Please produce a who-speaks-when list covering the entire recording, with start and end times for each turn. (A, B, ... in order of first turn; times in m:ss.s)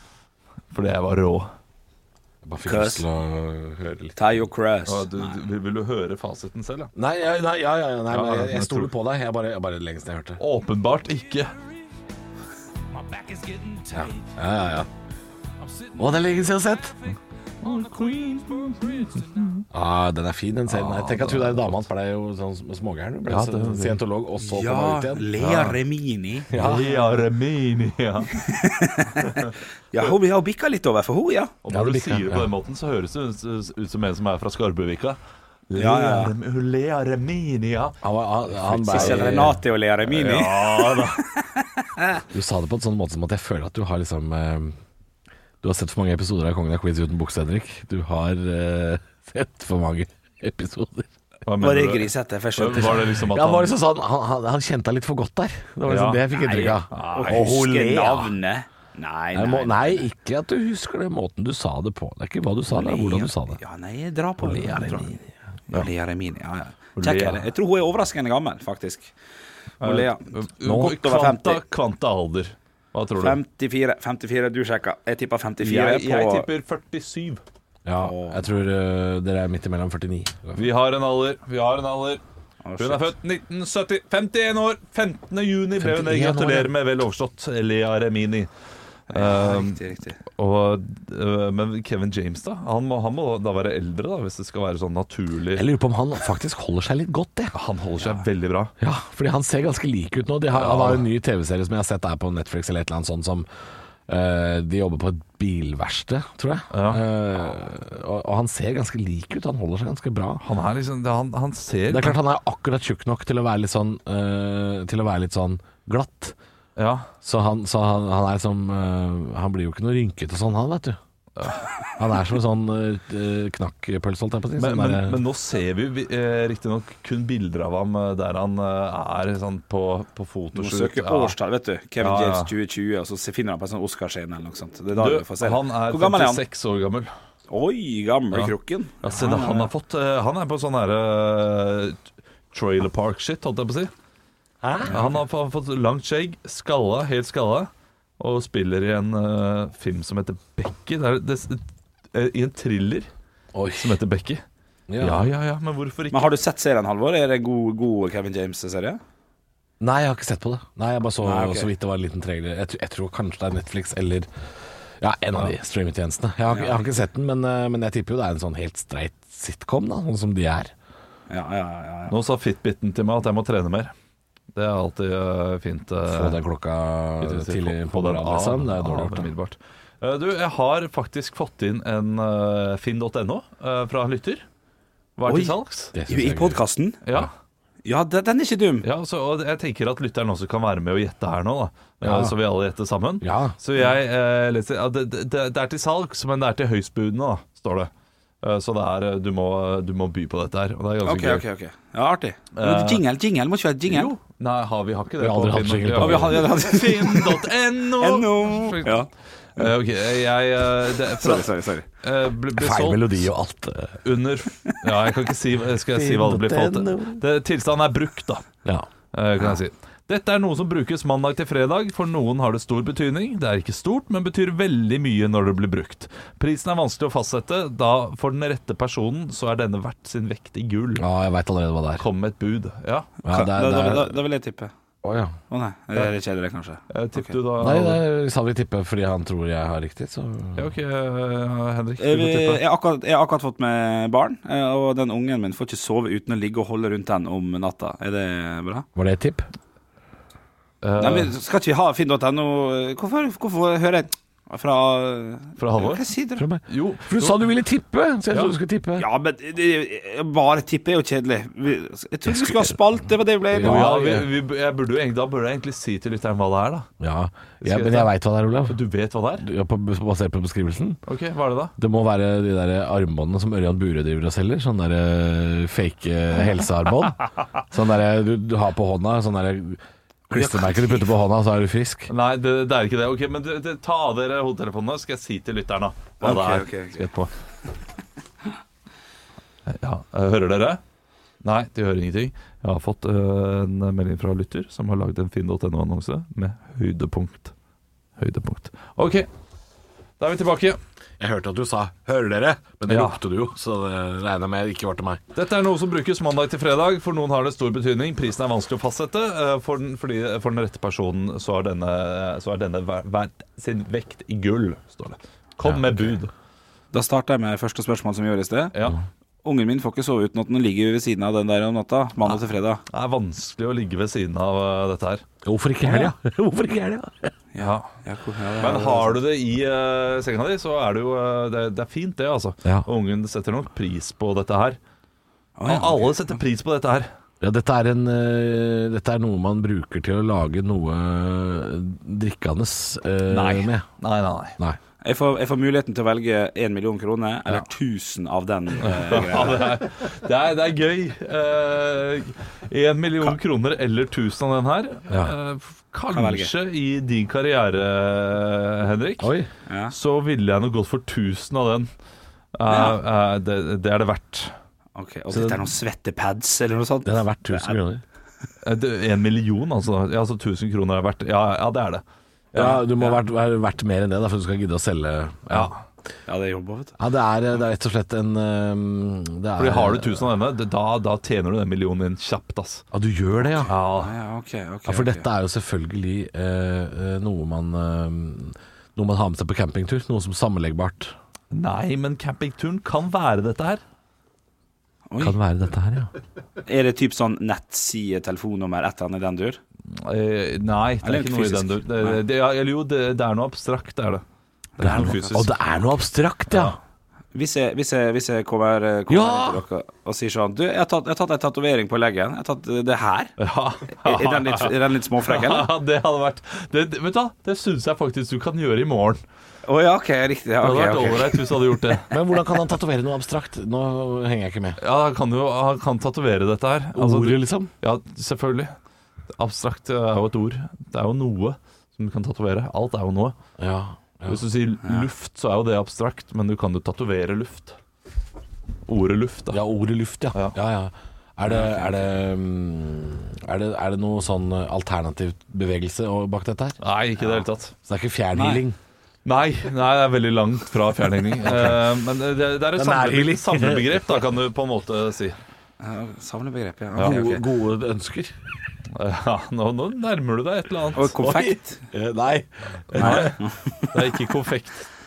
0:00.7-0:01.5 A
0:02.4-0:04.2 B
0:02.7-0:03.0 C
0:04.2-0:05.3 C
0:04.9-0:06.9 A
0:07.0-0:10.4 B
0:08.1-0:08.9 A
0:10.4-0:11.5 A
0:13.1-0:14.0 A
0:13.9-0:14.9 B
0:15.8-0:16.0 A
0:16.0-0:17.0 B
0:17.1-0:19.7 A
0:19.7-0:25.5 B
0:20.7-0:21.9 A
0:23.3-0:24.0 A
0:24.4-0:26.5 C
0:25.4-0:25.8 A
0:26.5-0:27.1 B
0:26.6-0:28.4 A
0:28.3-0:31.5 C
0:31.6-0:35.2 A
0:31.7-0:32.5 B
0:35.7-0:38.0 A
0:35.8-0:36.3 C
0:38.0-0:39.6 B
0:38.5-0:39.5 A
0:38.9-0:42.2 C
0:40.1-0:41.2 A
0:42.3-0:44.8 B
0:45.6-0:51.1 B
0:51.4-0:53.7 A
0:51.6-0:53.0 C
0:52.8-0:58.3 B
0:55.9-0:56.2 A
0:56.4-1:00.1 C
0:56.9-0:57.7 A
0:59.3-1:03.6 B
1:02.7-1:05.1 C
1:04.4-1:05.2 A
1:05.7-1:09.1 C
1:07.0-1:07.4 A
1:09.8-1:13.4 A
1:09.8-1:10.3 C
1:10.6-1:11.0 B
1:10.9-1:11.6 C
1:13.2-1:16.5 C
1:15.6-1:17.4 A
1:17.8-1:20.7 B
1:18.0-1:18.4 C
1:20.6-1:22.2 A
1:22.6-1:23.1 C
1:22.8-1:28.5 A
1:25.8-1:26.7 B
1:29.1-1:30.2 C
1:29.1-1:35.7 A
1:35.5-1:37.5 B
1:37.5-1:38.7 A
1:38.8-1:43.5 B
1:40.5-1:41.0 A
1:44.1-1:50.4 B
1:46.7-1:47.0 A
1:50.4-1:52.2 A
1:51.9-1:56.4 B
1:56.8-1:57.1 A
1:57.2-2:01.0 B
2:01.4-2:01.7 A
2:02.0-2:05.2 B
2:04.6-2:11.4 A
2:10.5-2:16.4 C
2:12.0-2:12.5 A
2:15.0-2:17.1 A
2:17.5-2:19.7 C
2:18.3-2:22.0 A
2:22.5-2:23.9 A
2:24.6-2:24.9 B
2:24.9-2:25.1 C
2:24.9-2:33.1 A
2:33.5-2:34.0 B
2:33.8-2:34.4 A
2:34.9-2:35.3 B
2:35.0-2:36.3 A
2:36.1-2:39.0 C
2:39.8-2:44.3 B
2:41.2-2:41.7 C
2:45.0-2:50.7 B
2:46.5-2:46.8 C
2:51.3-2:52.2 C
2:52.1-2:53.9 A
2:54.6-2:56.4 A
2:56.1-2:59.3 B
2:57.2-3:04.4 A
3:05.2-3:05.9 A
3:05.2-3:06.6 B
3:06.1-3:07.0 C
3:07.0-3:07.3 A
3:07.8-3:08.9 C
3:08.8-3:17.9 A
3:12.0-3:12.3 B
3:13.2-3:13.6 B
3:18.4-3:21.4 A
3:21.0-3:24.1 C
3:22.6-3:23.0 A
3:23.9-3:29.0 A
3:25.2-3:26.6 B
3:26.0-3:27.5 C
3:28.0-3:29.7 C
3:29.6-3:31.5 A
3:31.2-3:31.9 C
3:32.0-3:33.1 A
3:32.6-3:34.0 B
3:34.0-3:38.5 A
3:35.9-3:37.2 B
3:39.1-3:51.1 A
3:51.0-3:52.1 B
3:52.0-3:53.1 A
3:53.2-3:54.2 B
3:53.3-3:54.7 C
3:55.0-3:55.4 B
3:55.5-3:57.4 C
3:56.9-3:58.0 A
3:57.6-4:00.7 B
4:00.6-4:02.6 A
4:02.0-4:08.9 C
4:09.0-4:09.5 B
4:10.8-4:11.3 A
4:11.0-4:16.4 C
4:15.6-4:16.0 A
4:16.4-4:19.1 B
4:16.7-4:17.5 A
4:18.3-4:18.6 A
4:19.0-4:24.0 C
4:22.3-4:22.7 B
4:23.5-4:24.3 B
4:23.6-4:26.9 A
4:27.0-4:28.8 B
4:27.6-4:28.1 A
4:28.7-4:29.5 A
4:29.4-4:31.0 B
4:31.1-4:31.7 A
4:31.8-4:42.1 B
4:42.1-4:47.3 A
4:46.2-4:47.0 C
4:49.7-4:50.8 A
4:51.4-4:57.5 A
4:58.2-4:59.3 A
5:00.2-5:00.8 A
5:01.2-5:05.2 B
5:02.9-5:03.2 A
5:05.4-5:16.3 A
5:15.6-5:16.2 B
5:16.9-5:18.7 C
5:19.4-5:22.8 C
5:22.9-5:25.2 A
5:25.4-5:27.3 B
5:25.9-5:26.1 A
5:27.5-5:29.2 C
5:27.6-5:27.9 A
5:28.6-5:34.8 A
5:35.6-5:36.1 C
5:35.6-5:37.1 A
5:37.4-5:43.9 B
5:43.3-5:44.6 A
5:45.0-5:49.8 C
5:48.8-5:59.3 A
5:55.1-5:55.4 B
5:56.1-5:56.5 C
5:59.2-5:59.5 B
5:59.7-5:59.9 C
5:59.9-6:01.9 A
6:02.6-6:04.5 A
6:02.7-6:03.0 C
6:05.0-6:07.8 C
6:05.3-6:05.7 A
6:07.0-6:08.0 B
6:08.6-6:13.2 A
6:12.5-6:15.7 B
6:15.5-6:15.8 A
6:16.3-6:17.0 C
6:17.0-6:20.3 B
6:19.6-6:22.9 A
6:22.9-6:23.7 B
6:23.6-6:24.1 A
6:24.0-6:25.3 C
6:24.9-6:31.2 B
6:31.5-6:33.8 A
6:35.1-6:35.4 C
6:35.2-6:36.1 B
6:36.6-6:39.6 C
6:39.9-6:44.2 A
6:41.0-6:42.2 C
6:44.8-6:45.3 C
6:44.8-6:46.8 B
6:44.8-6:45.6 A
6:46.5-6:46.8 A
6:47.3-6:53.3 C
6:49.1-6:49.6 B
6:53.4-6:59.2 A
6:54.0-6:55.7 C
6:59.7-7:01.5 C
7:00.6-7:02.1 A
7:02.0-7:04.8 B
7:04.8-7:08.7 A
7:07.0-7:07.7 B
7:09.4-7:13.4 A
7:13.6-7:14.4 B
7:14.3-7:17.8 A
7:18.9-7:19.6 A
7:19.5-7:26.8 B
7:21.4-7:21.9 C
7:26.8-7:27.7 A
7:27.8-7:28.8 B
7:28.4-7:28.6 C
7:29.2-7:35.4 A
7:31.4-7:31.8 B
7:32.8-7:34.2 B
7:35.8-7:37.4 C
7:37.0-7:37.2 A
7:37.0-7:38.3 B
7:39.0-7:41.2 A
7:41.0-7:41.8 C
7:41.2-7:43.3 B
7:42.9-7:43.4 A
7:42.9-7:43.9 C
7:43.9-7:44.9 A